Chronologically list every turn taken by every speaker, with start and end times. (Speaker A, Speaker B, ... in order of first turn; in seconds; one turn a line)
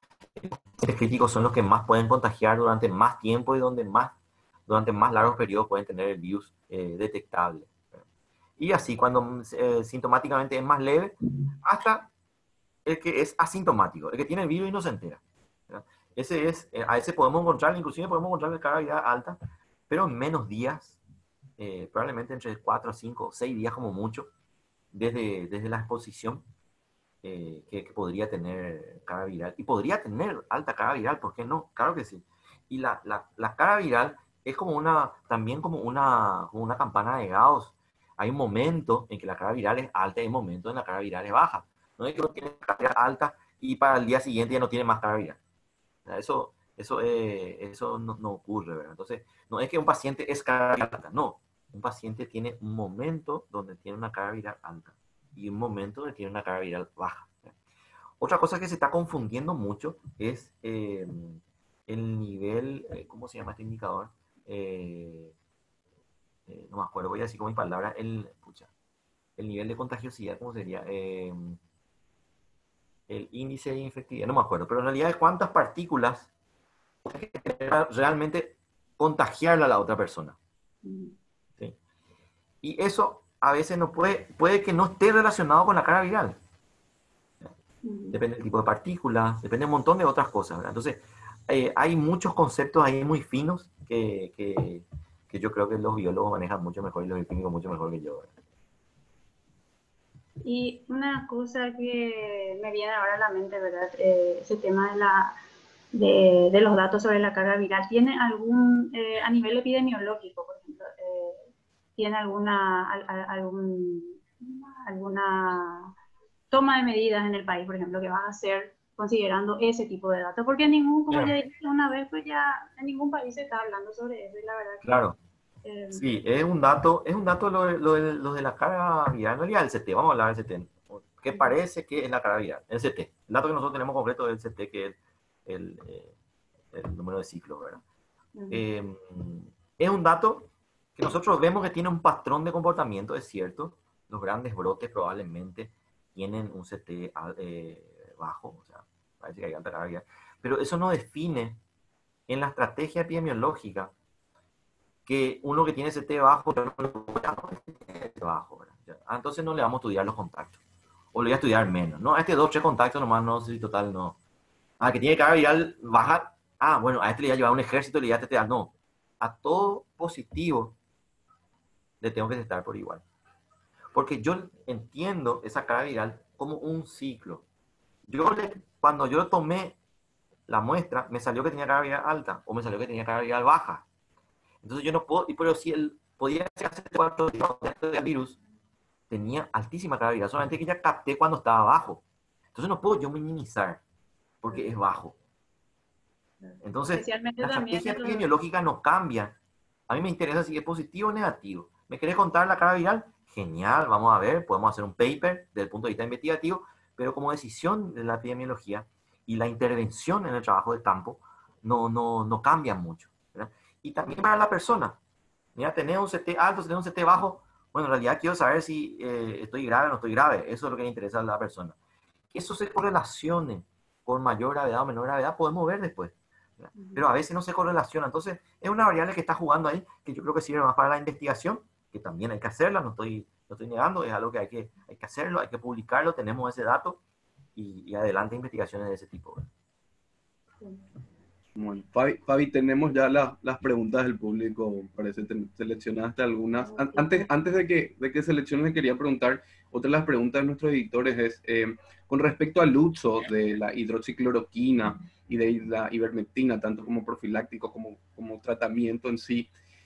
Speaker A: 0.4-4.1
Speaker A: 4.7-8.0
Speaker A: 8.6-12.1
Speaker A: 12.9-19.4
Speaker A: 19.9-21.0
Speaker A: 21.6-24.3
Speaker A: 24.9-26.4
Speaker A: 27.2-45.4
Speaker A: 46.0-57.5
Speaker A: 58.2-65.3
Speaker A: 66.5-68.7
Speaker A: 69.4-71.6
Speaker A: 73.1-76.3
Speaker A: 77.0-80.4
Speaker B: 80.8-81.1
Speaker A: 82.6-86.4
Speaker B: 87.8-88.2
Speaker A: 88.1-98.3
Speaker B: 100.4-105.4
Speaker B: 105.9-111.4
Speaker B: 112.0-115.9
Speaker B: 116.5-125.0
Speaker A: 124.8-125.2
Speaker B: 125.6-126.1
Speaker A: 125.9-136.1
Speaker A: 136.7-137.8
Speaker B: 138.3-138.6
Speaker A: 138.5-151.6
Speaker A: 152.3-153.9
Speaker A: 155.1-160.6
Speaker A: 161.1-164.2
Speaker A: 164.8-170.7
Speaker A: 172.0-173.0
Speaker A: 173.9-177.4
Speaker A: 178.1-179.8
Speaker A: 180.5-183.8
Speaker A: 184.6-188.4
Speaker A: 189.1-192.0
Speaker A: 192.5-193.8
Speaker A: 194.4-195.2
Speaker B: 196.4-198.3
Speaker A: 196.6-199.4
Speaker A: 199.9-215.0
Speaker A: 215.6-221.8
Speaker A: 222.3-237.0
Speaker B: 226.8-227.0
Speaker A: 237.6-239.4
Speaker B: 240.6-240.9
Speaker C: 241.6-259.5
Speaker B: 246.6-247.3